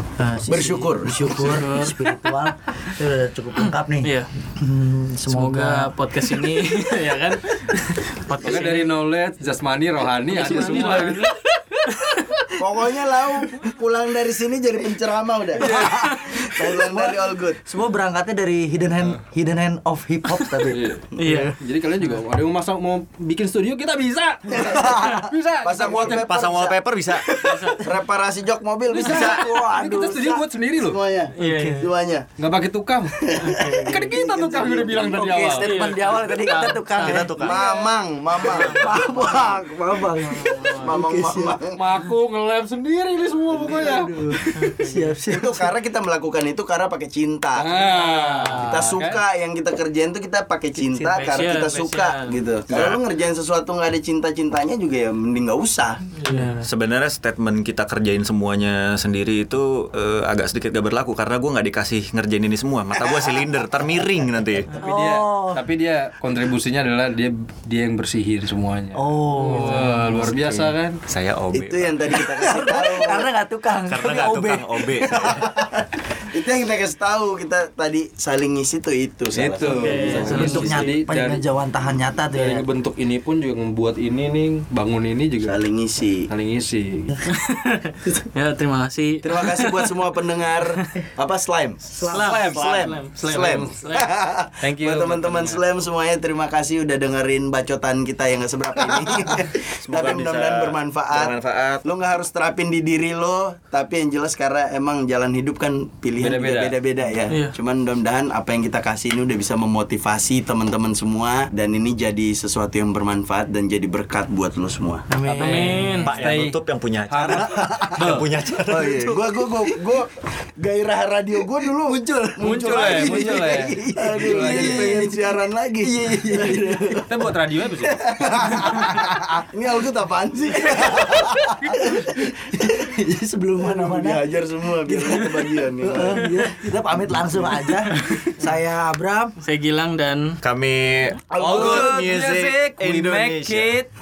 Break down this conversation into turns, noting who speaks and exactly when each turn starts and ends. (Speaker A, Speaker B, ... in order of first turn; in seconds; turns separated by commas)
Speaker A: 0.1-5.9, Speaker B: 0.5-1.3, Speaker C: 1.3-2.1, Speaker C: 4.0-4.3, Speaker C: 5.3-8.9, Speaker D: 8.4-11.3, Speaker C: 10.2-12.5, Speaker B: 12.6-17.6, Speaker D: 15.6-16.1, Speaker A: 15.7-21.4, Speaker C: 15.8-16.1, Speaker D: 20.6-26.3, Speaker C: 21.2-21.5, Speaker B: 24.5-26.8, Speaker E: 25.9-27.4, Speaker C: 27.4-27.8, Speaker B: 27.7-32.3, Speaker D: 28.9-31.0, Speaker E: 29.1-29.4, Speaker C: 31.4-31.9, Speaker A: 31.4-31.9, Speaker D: 32.4-33.2, Speaker B: 33.2-35.5, Speaker C: 33.4-34.1, Speaker D: 33.8-35.7, Speaker A: 35.1-37.6, Speaker C: 35.4-37.6, Speaker E: 37.0-37.6, Speaker B: 37.4-39.6, Speaker C: 38.4-39.1, Speaker A: 38.5-41.6, Speaker C: 40.4-40.9, Speaker B: 40.7-41.8, Speaker D: 41.7-44.1, Speaker A: 43.5-45.7, Speaker C: 44.5-45.1, Speaker B: 45.3-48.0, Speaker D: 47.5-49.2, Speaker C: 48.0-48.9, Speaker B: 48.5-56.0, Speaker C: 50.9-52.4, Speaker C: 56.1-56.6, Speaker E: 56.6-64.7, Speaker A: 64.7-65.6, Speaker D: 64.7-71.0, Speaker A: 68.9-70.7, Speaker E: 71.1-72.2, Speaker B: 71.5-73.3, Speaker A: 72.1-75.6, Speaker E: 73.9-75.3, Speaker B: 76.2-80.9, Speaker D: 79.3-81.4, Speaker C: 79.7-80.7, Speaker A: 80.2-82.7, Speaker D: 82.3-85.6, Speaker B: 85.4-86.3, Speaker D: 86.3-87.2, Speaker C: 87.3-89.9, Speaker B: 89.2-101.3, Speaker A: 92.0-92.3, Speaker C: 92.1-94.1, Speaker D: 92.1-93.0, Speaker D: 94.6-95.6, Speaker E: 99.8-101.8, Speaker B: 101.8-115.0, Speaker D: 106.2-106.8, Speaker C: 107.3-107.5, Speaker A: 115.1-116.0, Speaker D: 115.3-118.3, Speaker C: 115.4-116.1, Speaker E: 116.0-119.2, Speaker A: 117.6-117.8, Speaker B: 118.7-127.0, Speaker A: 121.7-125.1, Speaker D: 122.4-125.0, Speaker A: 125.8-127.2, Speaker D: 126.9-128.0, Speaker B: 127.8-132.7, Speaker A: 128.4-129.1, Speaker A: 130.6-139.3, Speaker B: 133.6-136.3, Speaker C: 139.4-140.4, Speaker E: 140.4-143.7, Speaker B: 141.3-141.8, Speaker D: 141.3-143.9